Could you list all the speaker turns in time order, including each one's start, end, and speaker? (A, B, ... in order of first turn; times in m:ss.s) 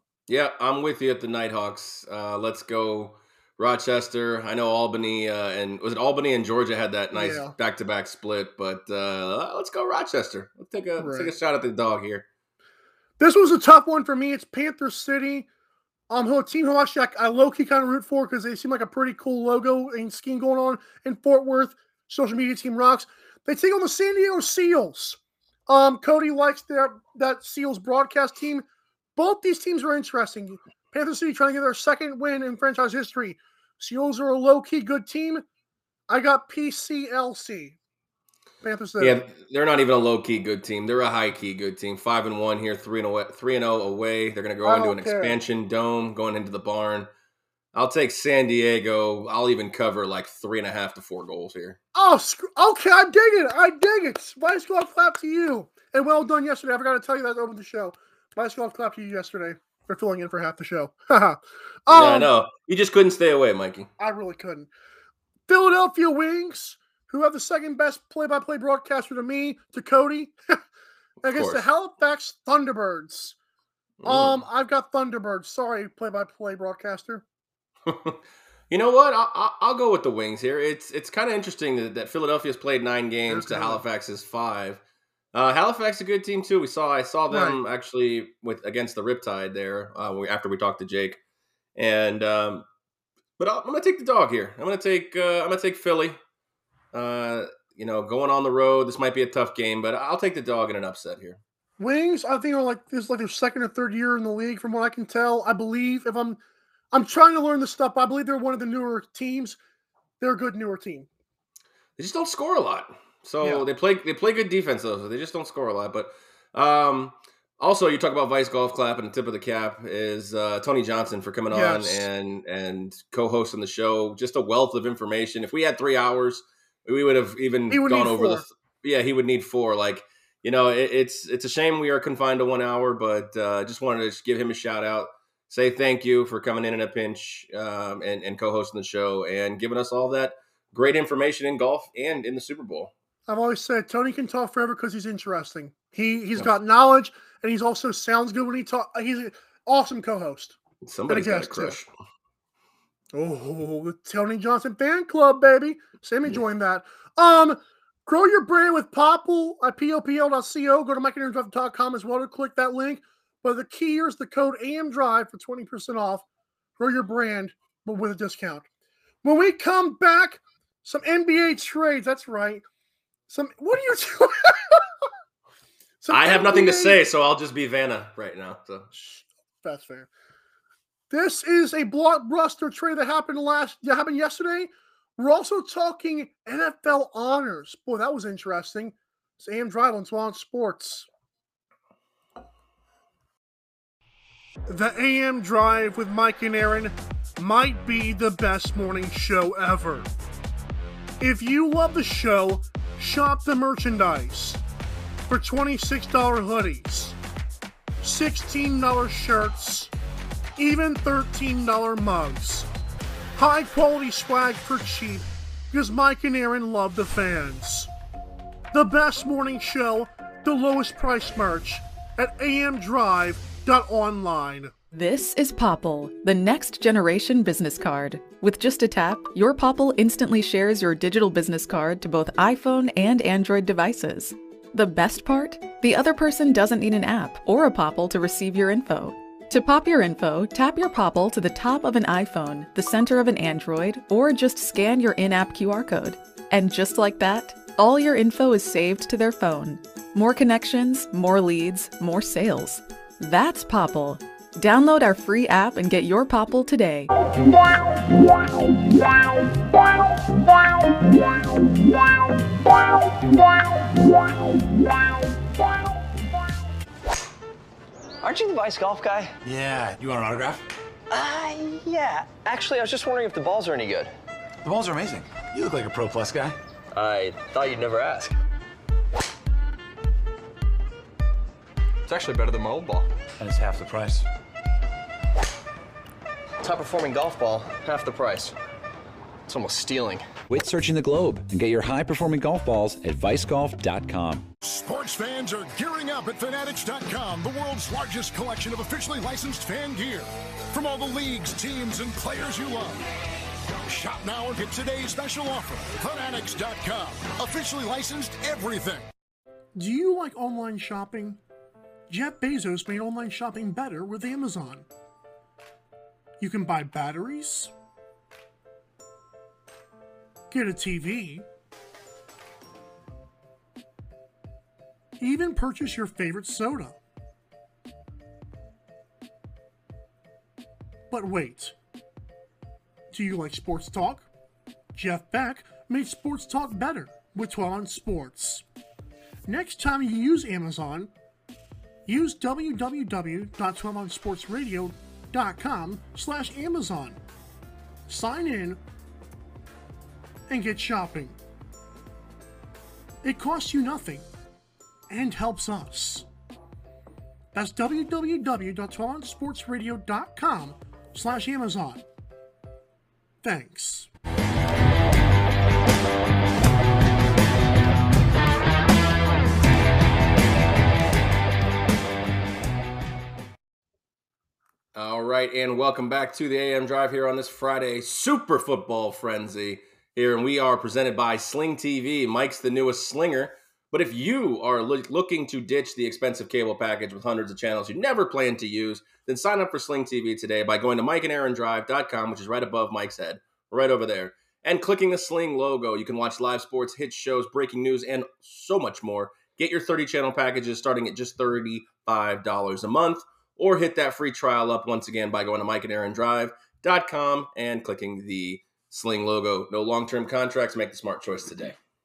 0:00.3-0:12.2 A
0:07.1-0:07.5 B
0:11.0-0:11.3 B
0:13.2-0:15.5 B
0:16.1-0:28.6 B
0:29.2-0:35.4 B
0:36.1-0:37.8 B
0:38.6-0:39.2 B
0:39.0-0:47.1 A
0:44.6-0:45.4 B
0:47.7-0:51.8 A
0:51.9-1:02.3 B
1:01.9-1:03.9 A
1:04.0-1:04.7 B
1:05.5-1:10.6 B
1:11.2-1:11.6 A
1:11.2-1:13.4 B
1:14.0-1:14.4 A
1:14.0-1:17.2 B
1:17.8-1:24.8 A
1:23.3-1:23.8 B
1:25.3-1:31.2 A
1:27.3-1:27.6 B
1:31.8-1:32.6 A
1:33.4-1:36.2 A
1:36.9-1:41.4 A
1:41.8-1:46.4 B
1:46.9-1:49.6 B
1:50.2-1:51.1 B
1:52.0-2:22.9 A
2:01.5-2:02.0 B
2:07.7-2:08.4 B
2:23.3-2:30.6 B
2:30.8-2:31.9 A
2:31.1-2:31.8 B
2:33.1-2:46.2 B
2:46.8-2:48.6 B
2:49.2-2:52.6 B
2:53.3-2:54.8 B
2:56.0-2:57.0 B
2:56.1-2:58.9 A
2:58.9-3:00.1 B
3:01.1-3:11.1 B
3:14.7-3:20.1 B
3:21.2-3:24.6 B
3:25.3-3:27.2 B
3:28.0-3:29.9 B
3:30.6-3:32.7 B
3:33.4-3:37.9 B
3:38.7-3:44.7 B
3:44.9-4:17.1 C
4:28.2-4:29.4 D
4:29.4-4:30.6 E
4:31.1-4:34.1 D
4:34.6-4:36.6 E
4:36.9-4:38.3 D
4:42.0-4:43.1 D
4:43.4-4:44.2 E
4:46.6-4:48.5 D
4:49.5-4:50.3 D
4:50.5-4:54.5 F
4:54.6-5:03.0 G
5:03.8-5:09.1 G
5:09.8-5:11.4 B
5:12.1-5:14.9 B
5:16.4-5:17.7 B
5:20.5-5:21.4 B
5:25.2-5:27.0 B
5:31.1-5:31.8 B
5:33.1-5:34.3 B
5:34.9-5:38.6 B
5:39.5-5:41.1 B
5:42.1-5:47.2 B
5:48.1-5:48.8 B
5:50.5-5:51.4 B
5:53.2-5:54.2 B
5:55.1-5:56.2 B
5:57.5-6:02.0 B
6:03.4-6:04.1 B
6:14.9-6:51.8 A